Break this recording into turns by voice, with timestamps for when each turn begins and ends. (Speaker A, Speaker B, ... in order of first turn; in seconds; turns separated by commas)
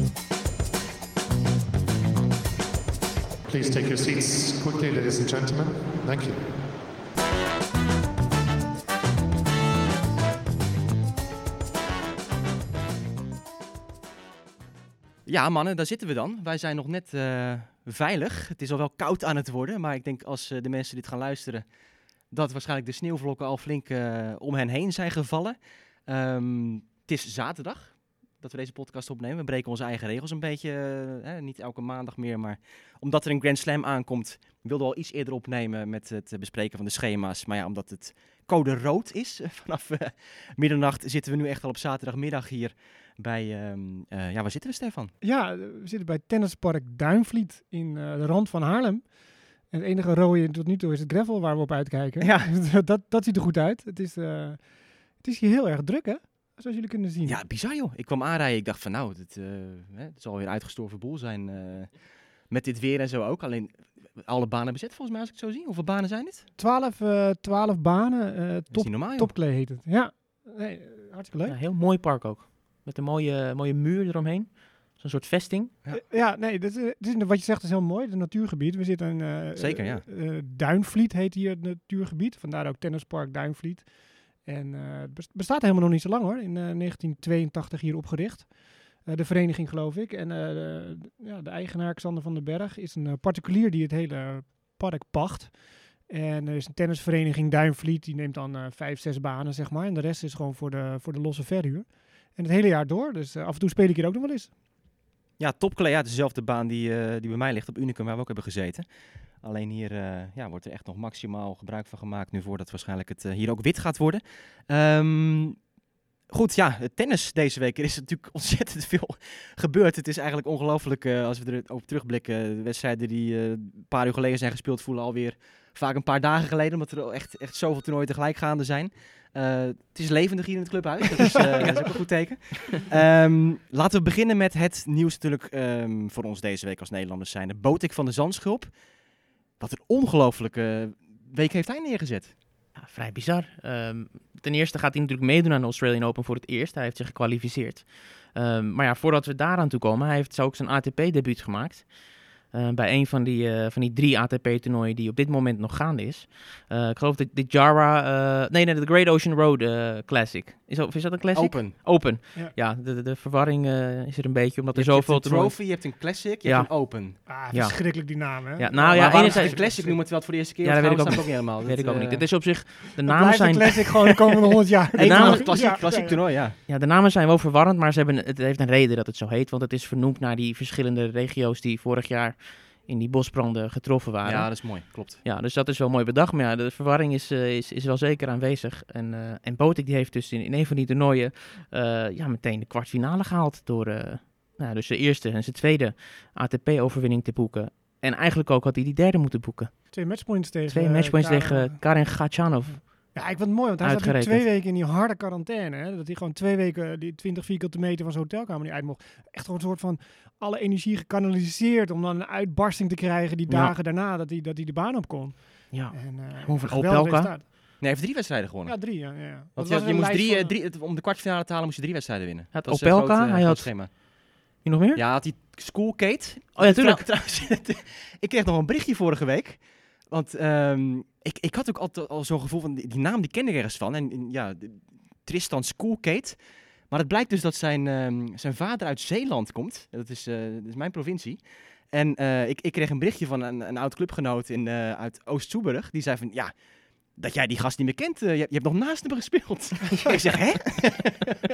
Speaker A: 3.4-6.5, Speaker B: 15.2-21.7, Speaker B: 22.3-45.1, Speaker C: 45.2-57.4, Speaker B: 52.2-52.5, Speaker B: 57.2-66.5, Speaker C: 66.6-71.6, Speaker B: 68.7-69.3, Speaker D: 71.5-75.7, Speaker C: 75.9-104.5, Speaker B: 79.5-80.0, Speaker B: 105.4-115.7, Speaker B: 116.3-138.8, Speaker B: 139.6-142.3, Speaker D: 142.7-174.2, Speaker B: 161.3-161.8, Speaker B: 164.7-167.2, Speaker C: 167.2-170.0, Speaker B: 168.9-172.3, Speaker C: 173.0-176.2, Speaker B: 174.9-176.6, Speaker D: 175.0-175.7, Speaker D: 176.7-200.1, Speaker B: 184.2-185.2, Speaker C: 199.9-217.4, Speaker D: 200.7-203.3, Speaker D: 203.8-204.5, Speaker D: 213.5-213.7, Speaker D: 215.7-217.4, Speaker B: 217.8-223.9, Speaker C: 218.6-220.6, Speaker D: 222.5-225.0, Speaker B: 224.9-251.3, Speaker D: 226.6-227.1